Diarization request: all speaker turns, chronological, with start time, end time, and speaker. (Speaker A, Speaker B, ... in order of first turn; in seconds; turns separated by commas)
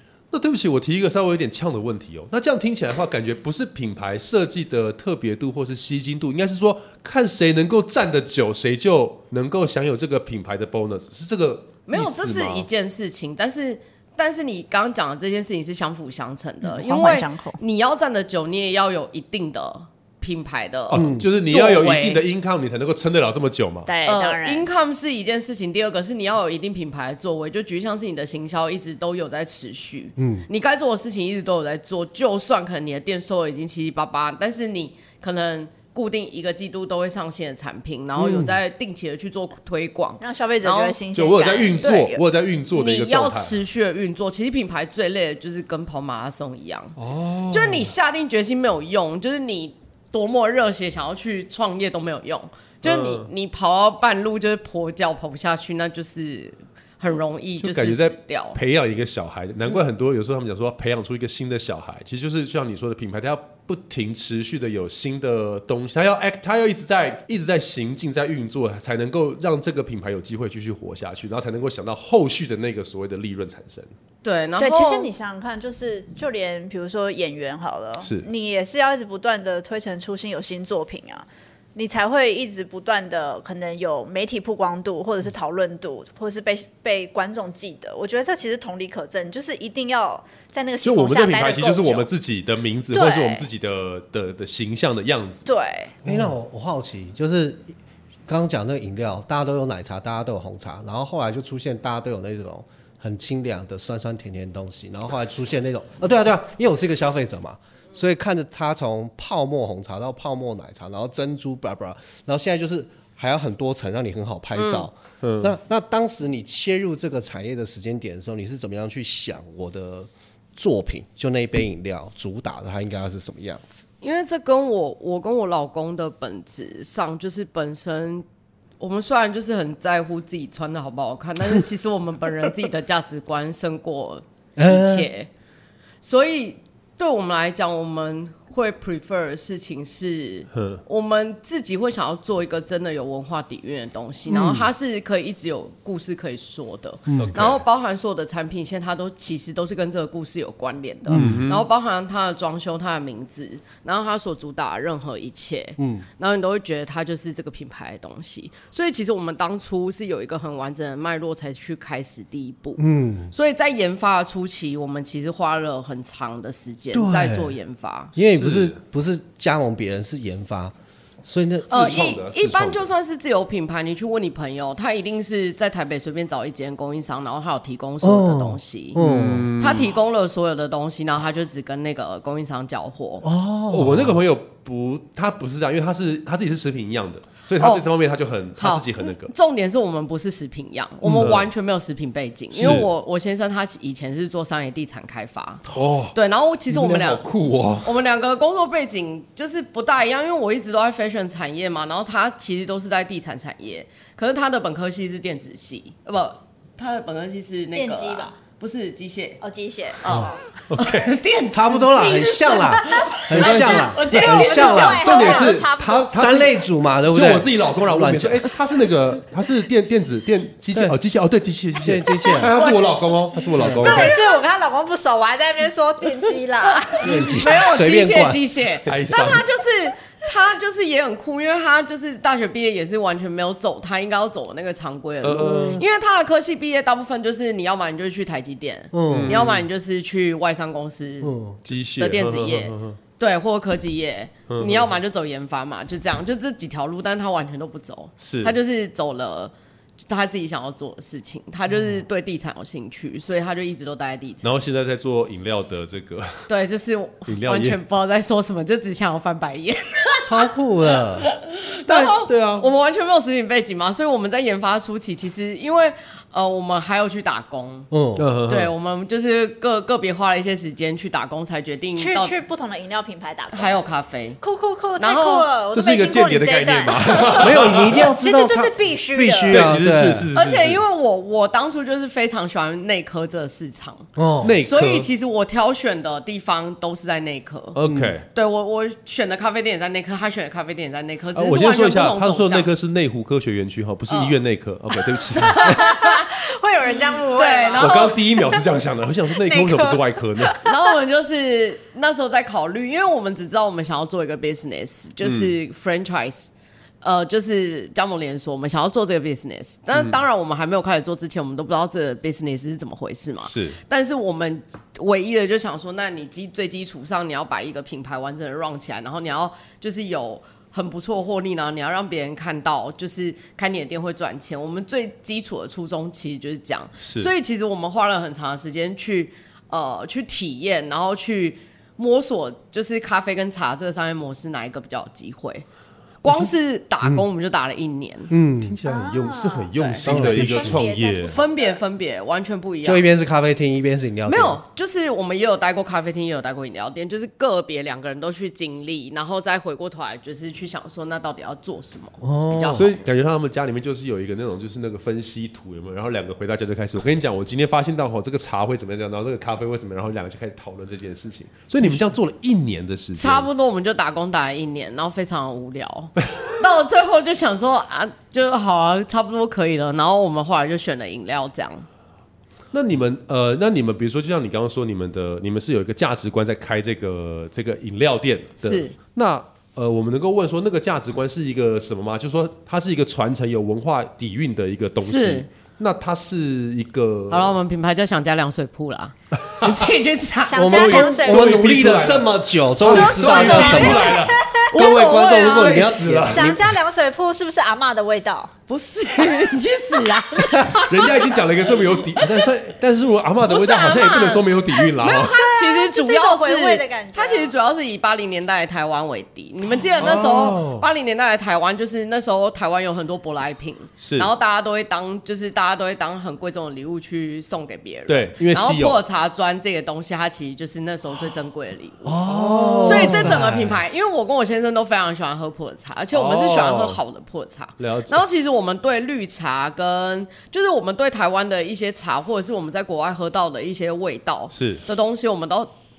Speaker A: 0.3-12.7, Speaker B: 11.9-22.2, Speaker C: 16.6-17.6, Speaker A: 20.9-23.9, Speaker D: 20.9-21.2, Speaker C: 23.9-24.7, Speaker B: 24.0-41.0, Speaker D: 30.2-30.5, Speaker D: 38.2-38.6, Speaker C: 40.2-42.2, Speaker A: 41.1-43.6, Speaker B: 42.7-47.0, Speaker A: 47.0-47.9, Speaker B: 47.5-58.6, Speaker A: 52.8-53.3, Speaker A: 57.6-73.9, Speaker B: 74.2-75.1, Speaker C: 74.6-92.1, Speaker A: 78.0-78.2, Speaker A: 90.8-95.4, Speaker C: 92.9-93.5, Speaker C: 95.5-96.0, Speaker D: 96.0-97.7, Speaker D: 98.3-123.8, Speaker B: 114.5-114.9, Speaker A: 115.2-115.5, Speaker B: 124.0-128.2, Speaker B: 128.8-135.3, Speaker D: 134.6-135.1, Speaker B: 136.0-168.1, Speaker A: 140.5-140.8, Speaker D: 144.3-144.7, Speaker A: 147.2-147.6, Speaker D: 151.1-151.4, Speaker A: 151.1-151.7, Speaker D: 155.8-156.1, Speaker D: 162.8-163.3, Speaker D: 166.9-167.6, Speaker D: 168.1-172.0, Speaker A: 168.2-168.8, Speaker B: 171.7-179.0, Speaker A: 171.7-172.9, Speaker D: 178.0-179.5, Speaker A: 179.0-179.9, Speaker B: 179.6-183.3, Speaker D: 183.2-184.2, Speaker A: 183.7-189.3, Speaker B: 187.6-187.9, Speaker B: 188.6-197.3, Speaker A: 191.1-191.4, Speaker A: 192.5-192.9, Speaker A: 195.7-196.2, Speaker A: 196.7-197.9, Speaker B: 197.8-209.4, Speaker C: 207.7-208.3, Speaker C: 209.4-210.4, Speaker B: 210.0-215.5, Speaker A: 210.7-211.1, Speaker D: 211.5-215.2, Speaker C: 212.2-212.8, Speaker C: 213.3-216.4, Speaker A: 214.9-216.5, Speaker D: 216.1-218.5, Speaker A: 217.1-224.2, Speaker D: 221.8-222.5, Speaker B: 222.6-223.0, Speaker D: 223.6-224.1, Speaker C: 223.8-227.6, Speaker B: 223.8-224.4, Speaker B: 226.8-241.3, Speaker D: 227.0-228.4, Speaker A: 228.8-229.4, Speaker A: 235.2-235.8, Speaker D: 235.4-235.8, Speaker D: 238.9-239.5, Speaker A: 239.1-239.6, Speaker D: 241.2-241.6, Speaker A: 241.7-243.0, Speaker B: 242.0-249.5, Speaker A: 244.5-244.9, Speaker A: 248.2-248.6, Speaker B: 250.0-254.5, Speaker A: 254.4-256.4, Speaker B: 256.5-267.9, Speaker A: 257.2-257.8, Speaker D: 260.2-261.3, Speaker A: 261.9-262.7, Speaker D: 267.9-268.2, Speaker A: 268.2-268.7, Speaker B: 268.5-272.3, Speaker C: 272.0-273.8, Speaker B: 273.5-274.4, Speaker C: 274.4-279.8, Speaker B: 275.0-275.5, Speaker A: 275.7-278.0, Speaker D: 277.4-280.3, Speaker A: 279.5-280.8, Speaker B: 280.3-284.1, Speaker D: 284.1-284.6, Speaker A: 284.4-285.1, Speaker B: 284.6-287.8, Speaker A: 287.7-288.2, Speaker D: 287.9-288.1, Speaker B: 288.3-292.7, Speaker A: 291.3-295.8, Speaker B: 294.1-294.4, Speaker C: 295.4-298.6, Speaker B: 295.4-296.3, Speaker B: 297.3-298.2, Speaker A: 297.8-300.6, Speaker C: 299.4-300.8, Speaker B: 300.6-306.5, Speaker A: 305.2-305.5, Speaker B: 307.0-335.6, Speaker A: 313.4-313.8, Speaker A: 327.0-327.3, Speaker B: 336.2-338.3, Speaker D: 338.3-338.8, Speaker A: 338.6-341.3, Speaker C: 338.8-341.8, Speaker B: 339.8-340.3, Speaker D: 340.0-340.8, Speaker B: 341.2-343.0, Speaker D: 342.8-344.6, Speaker B: 344.2-353.0, Speaker D: 352.2-352.9, Speaker A: 352.7-363.5, Speaker B: 363.1-371.9, Speaker A: 372.7-387.6, Speaker B: 378.6-378.9, Speaker B: 385.0-385.5, Speaker B: 387.3-390.8, Speaker A: 389.5-389.8, Speaker C: 390.4-391.6, Speaker D: 390.5-394.2, Speaker A: 390.6-396.6, Speaker B: 392.8-394.1, Speaker C: 393.0-398.5, Speaker D: 394.7-396.7, Speaker B: 398.7-402.4, Speaker A: 400.9-405.4, Speaker B: 403.4-422.2, Speaker C: 405.1-407.5, Speaker A: 410.0-410.9, Speaker A: 414.0-414.3, Speaker A: 418.1-419.0, Speaker D: 422.0-423.8, Speaker A: 422.2-423.5, Speaker B: 422.8-435.7, Speaker A: 426.1-427.0, Speaker A: 427.8-428.2, Speaker A: 434.5-434.8